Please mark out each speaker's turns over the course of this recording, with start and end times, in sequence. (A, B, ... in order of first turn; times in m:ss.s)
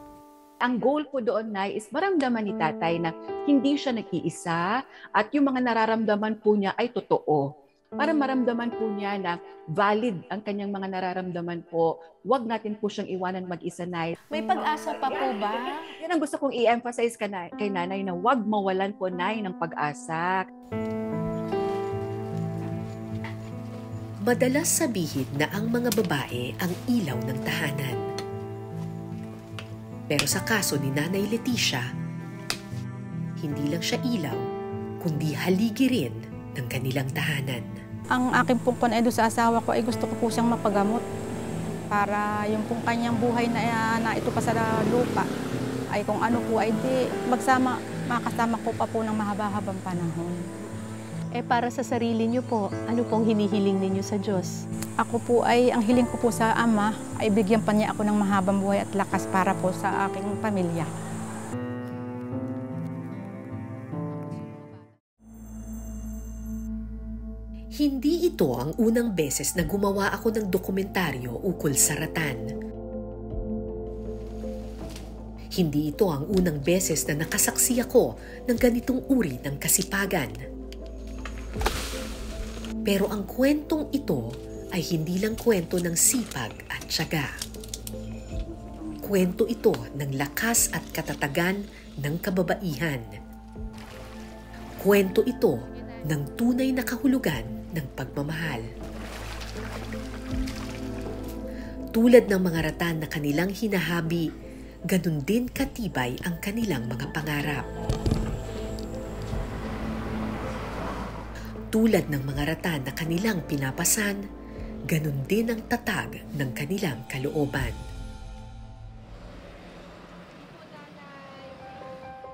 0:00.6-0:04.6 A
0:05.2-0:14.2 A
0:14.3-0:15.9 B
0:14.8-0:20.4 A
0:24.2-0:28.0 C
0:30.1-0:31.9 C
0:33.4-0:34.4 C
0:35.0-0:37.7 C
0:38.1-0:41.0 D
0:41.9-0:45.3 D
0:45.9-0:50.4 D
0:51.4-0:54.6 B
0:55.0-1:00.9 D
1:07.8-1:12.4 C
1:15.6-1:20.3 C
1:22.8-1:27.3 C
1:28.7-1:29.0 D
1:29.0-1:33.1 C
1:34.8-1:38.6 C
1:35.7-1:36.1 B
1:41.9-1:44.3 C
1:44.9-1:47.7 C
1:51.7-1:54.2 C
1:54.9-1:57.8 C
2:00.4-2:01.7 B